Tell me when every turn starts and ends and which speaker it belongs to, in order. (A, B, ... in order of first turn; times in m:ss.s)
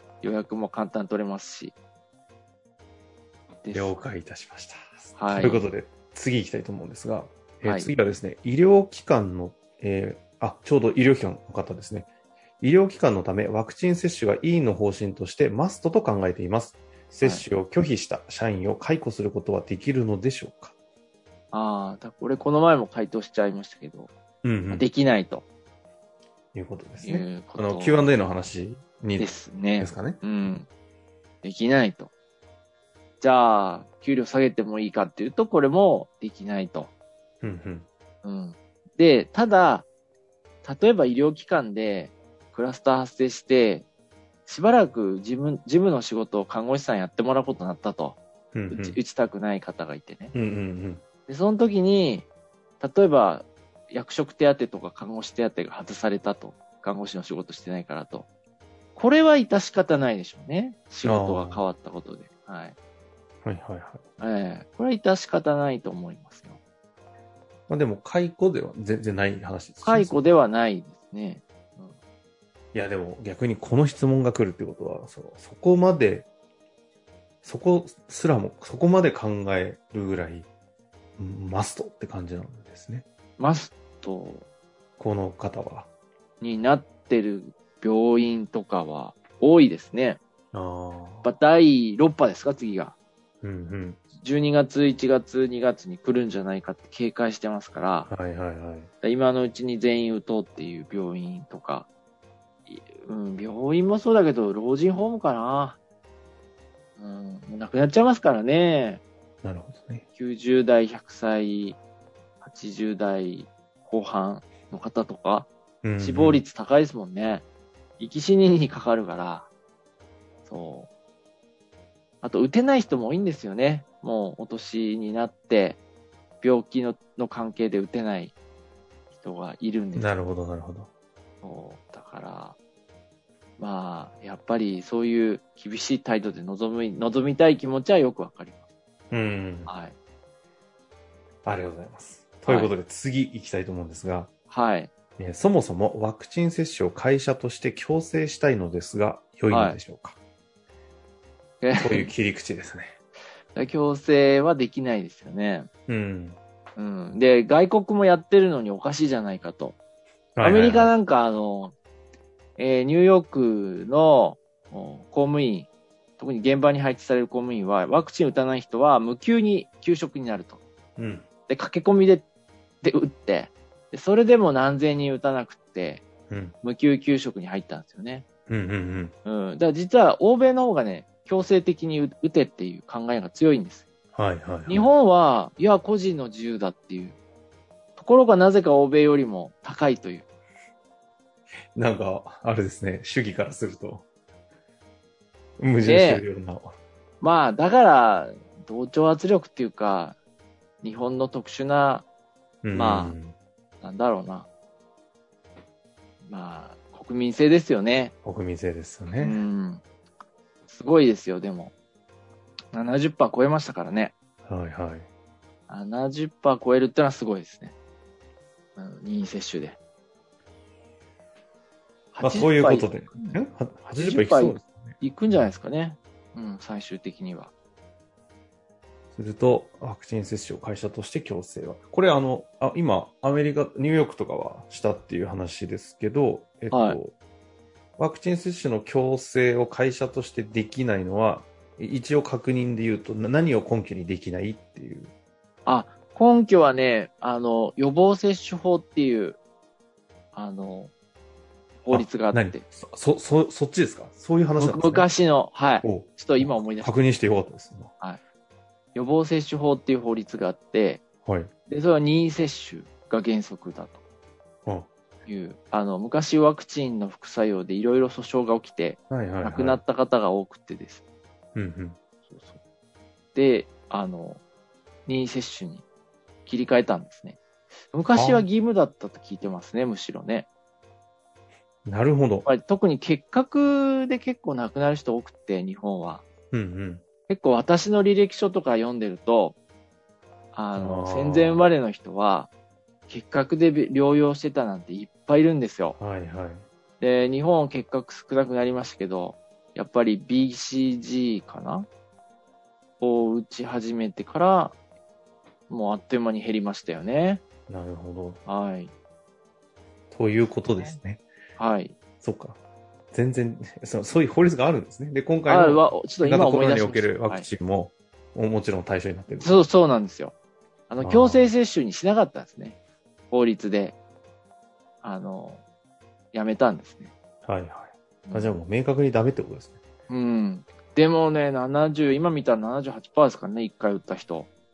0:00.2-0:01.7 A
0:03.6-0:04.0 A
0:03.7-0:12.1 B
0:05.2-0:05.6 A
0:07.6-0:07.9 A
0:12.6-0:20.7 B
0:21.5-0:24.1 A
0:24.4-0:24.8 B
0:24.7-0:25.4 A
0:26.5-0:30.2 B
0:27.0-0:28.1 A
0:29.2-0:30.6 A
0:31.4-0:32.1 A
0:33.2-0:36.9 A
0:37.4-0:37.8 B
0:38.2-0:39.9 A
0:40.6-0:43.8 A
0:44.4-0:50.3 A
0:48.5-0:49.0 B
0:50.3-0:51.0 B
0:51.3-0:52.3 A
0:52.8-0:58.3 A
0:58.9-1:02.7 A
1:01.0-1:01.6 B
1:03.4-1:04.0 B
1:04.2-1:06.6 A
1:07.7-1:10.2 B
1:09.8-1:11.9 A
1:12.7-1:16.3 B
1:17.4-1:20.5 B
1:21.2-1:23.0 B
1:23.4-1:24.4 A
1:25.0-1:25.9 B
1:26.4-1:30.2 A
1:30.5-1:31.3 B
1:31.2-1:33.0 A
1:33.4-1:34.0 B
1:34.2-1:38.1 A
1:38.1-1:38.9 B
1:39.0-1:41.9 A
1:42.7-1:45.8 A
1:47.0-1:49.0 A
1:49.4-1:50.0 B
1:50.1-1:51.8 A
1:52.4-1:57.4 A
1:55.8-1:56.4 B
1:58.0-1:59.5 A
2:00.4-2:00.9 A
2:02.2-2:05.8 A
2:06.4-2:08.3 A
2:09.1-2:10.2 A
2:09.9-2:10.9 B
2:11.4-2:12.6 A
2:13.6-2:18.6 A
2:19.1-2:19.7 B
2:19.6-2:20.0 A
2:21.4-2:24.3 B
2:22.4-2:22.7 A
2:24.5-2:24.9 A
2:25.2-2:30.2 B
2:29.5-2:29.8 A
2:31.6-2:32.1 A
2:31.8-2:32.9 B
2:33.5-2:35.7 A
2:35.9-2:36.4 B
2:36.8-2:39.8 A
2:40.4-2:40.9 B
2:40.4-2:41.7 A
2:42.6-2:50.6 A
2:51.0-2:51.2 B
2:51.5-2:52.2 A
2:52.8-2:56.0 A
2:56.3-2:56.5 B
2:56.6-2:58.2 A
2:58.5-2:59.1 B
2:59.2-3:03.9 A
3:04.1-3:04.9 B
3:04.7-3:07.2 A
3:08.0-3:10.3 A
3:11.8-3:14.0 B
3:15.6-3:16.8 B
3:15.8-3:16.2 A
3:17.2-3:20.2 A
3:20.8-3:22.0 A
3:22.6-3:23.4 B
3:22.7-3:23.2 A
3:23.8-3:24.5 A
3:26.2-3:28.1 A
3:28.2-3:29.4 B
3:29.2-3:29.8 A
3:30.7-3:31.7 A
3:32.7-3:34.1 A
3:34.4-3:35.1 B
3:35.7-3:37.7 A
3:38.8-3:39.8 A
3:42.1-3:43.4 A
3:42.2-3:45.0 B
3:43.9-3:47.5 A
3:49.1-3:57.1 B
3:56.7-3:57.0 A
3:58.0-4:05.1 B
4:05.6-4:09.4 A
4:10.3-4:10.9 A
4:11.8-4:12.6 A
4:11.9-4:15.1 B
4:14.6-4:16.9 A
4:15.8-4:17.9 B
4:18.9-4:21.0 A
4:21.2-4:21.5 B
4:21.6-4:24.0 A
4:25.2-4:31.0 A
4:29.1-4:29.8 B
4:31.5-4:32.0 B
4:32.3-4:32.6 A
4:33.3-4:34.4 A
4:35.0-4:35.8 A
4:36.4-4:37.4 A
4:37.9-4:40.5 A
4:38.2-4:38.4 B
4:41.8-4:42.5 B
4:42.4-4:46.2 A
4:46.5-4:47.0 B
4:47.3-4:49.6 A
4:50.5-4:52.5 A
4:50.7-4:51.7 B
4:53.1-4:56.0 A
4:56.0-4:56.6 B
4:57.0-5:01.9 A
5:03.0-5:04.8 A
5:05.7-5:07.4 A
5:07.7-5:08.4 B
5:08.4-5:08.9 A
5:10.1-5:11.2 B
5:11.6-5:11.9 A
5:12.2-5:12.6 B
5:13.1-5:19.6 B
5:15.5-5:17.5 A
5:19.4-5:20.3 A
5:20.9-5:22.8 A
5:21.0-5:21.5 B
5:23.3-5:24.0 A
5:25.0-5:25.6 A
5:26.3-5:27.1 A
5:27.4-5:29.8 B
5:28.2-5:28.6 A
5:30.1-5:34.5 A